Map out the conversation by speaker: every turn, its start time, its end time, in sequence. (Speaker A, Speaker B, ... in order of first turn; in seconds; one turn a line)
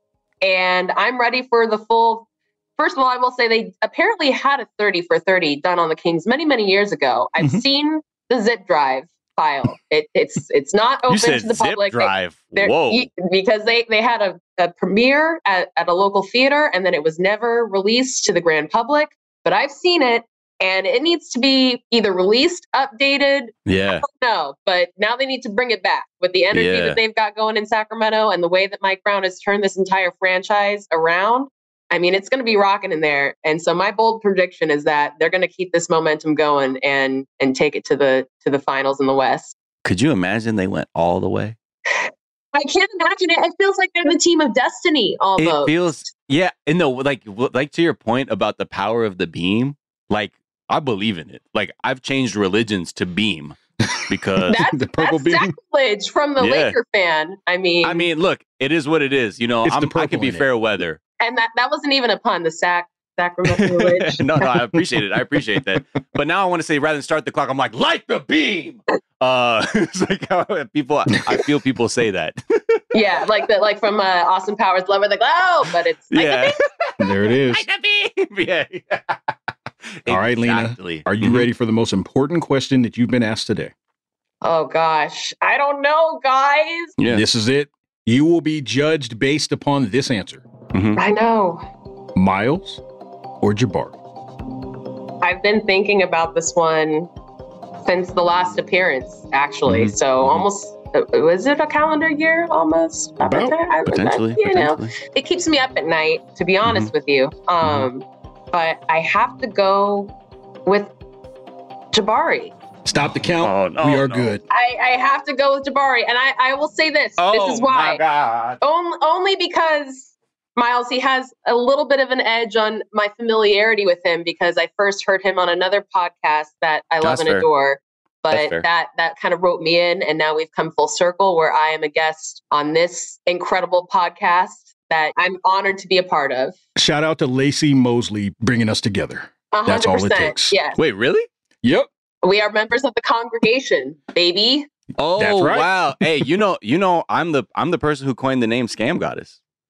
Speaker A: 0.4-39.5
Speaker B: 11.1-13.1
Speaker B: 23.7-24.0
Speaker B: 26.5-27.0
Speaker B: 39.8-41.6
Speaker A: 41.9-46.0
Speaker B: 45.4-54.6
Speaker C: 54.0-55.6
Speaker A: 54.5-58.1
Speaker B: 56.4-56.8
Speaker B: 57.8-61.0
Speaker C: 59.6-60.5
Speaker A: 61.2-64.5
Speaker C: 63.6-64.0
Speaker B: 64.1-72.8
Speaker A: 72.9-76.6
Speaker B: 76.1-79.2
Speaker C: 77.0-77.7
Speaker B: 80.0-81.5
Speaker C: 80.1-83.7
Speaker A: 84.4-86.9
Speaker B: 87.0-87.2
Speaker C: 87.0-90.5
Speaker B: 90.7-91.0
Speaker A: 91.0-91.6
Speaker C: 92.2-92.8
Speaker C: 93.4-94.0
Speaker A: 95.2-97.1
Speaker A: 97.8-110.1
Speaker B: 99.7-100.5
Speaker C: 103.3-103.5
Speaker B: 103.3-105.0
Speaker B: 106.7-106.9
Speaker A: 110.7-110.9
Speaker A: 111.9-112.5
Speaker C: 112.8-114.4
Speaker B: 113.2-114.3
Speaker A: 114.5-118.0
Speaker B: 117.2-118.6
Speaker A: 118.6-136.6
Speaker B: 127.0-127.5
Speaker B: 128.3-128.7
Speaker C: 136.8-140.6
Speaker A: 139.5-140.8
Speaker B: 140.8-141.3
Speaker C: 141.6-141.9
Speaker A: 142.2-144.7
Speaker B: 145.0-149.4
Speaker C: 145.2-146.3